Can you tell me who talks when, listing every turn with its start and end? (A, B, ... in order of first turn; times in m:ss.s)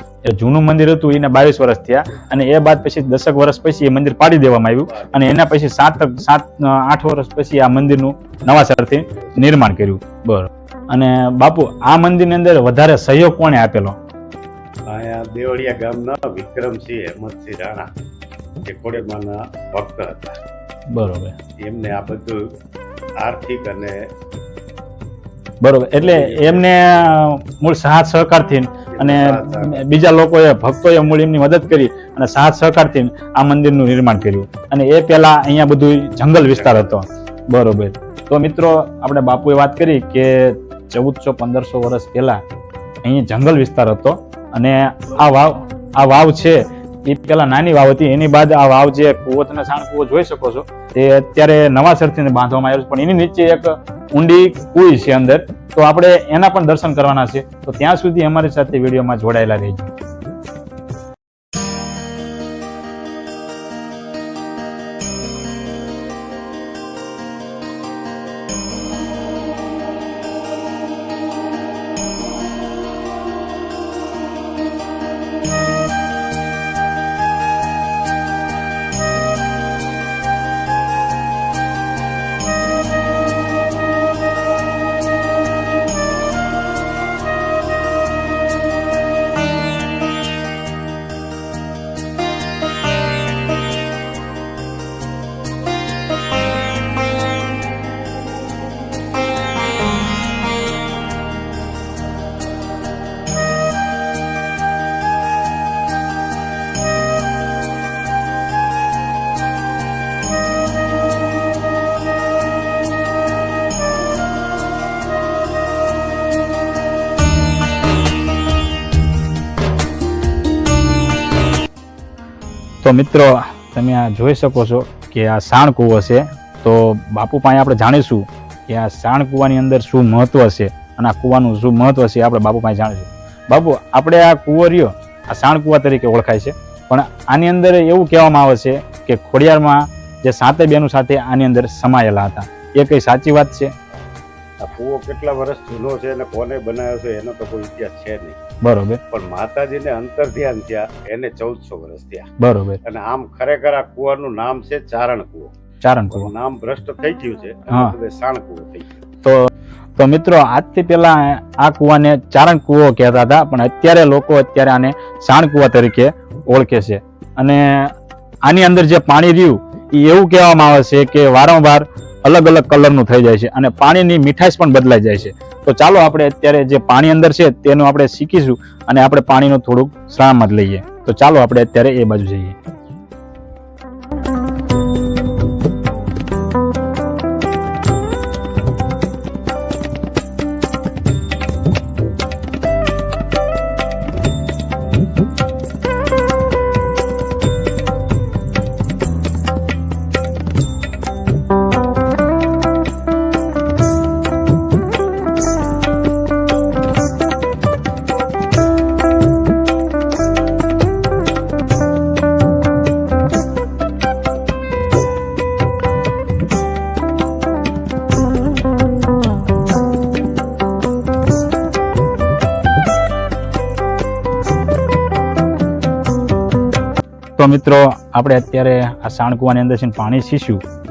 0:00.3-0:14.0 A
0:04.8-0:05.3 B
0:14.9-0:17.9 B
0:18.6-0:20.4 B
0:20.9-0:21.4 A
0:21.6-0:22.5 B
0:23.2-0:24.0 B
0:25.6-0:42.4 A
0:26.0-0:26.8 B
0:28.9-0:29.8 B
0:36.5-0:37.0 B
0:43.0-0:59.9 A
2:02.8-2:23.7 A
2:24.6-2:28.4 B
2:28.6-2:29.0 A
2:29.1-2:32.3 B
2:32.4-2:32.8 A
2:32.8-2:35.5 B
2:35.8-2:36.3 A
2:36.1-2:38.9 B
2:39.2-2:47.9 A
2:48.4-3:02.6 A
3:47.4-3:50.6 A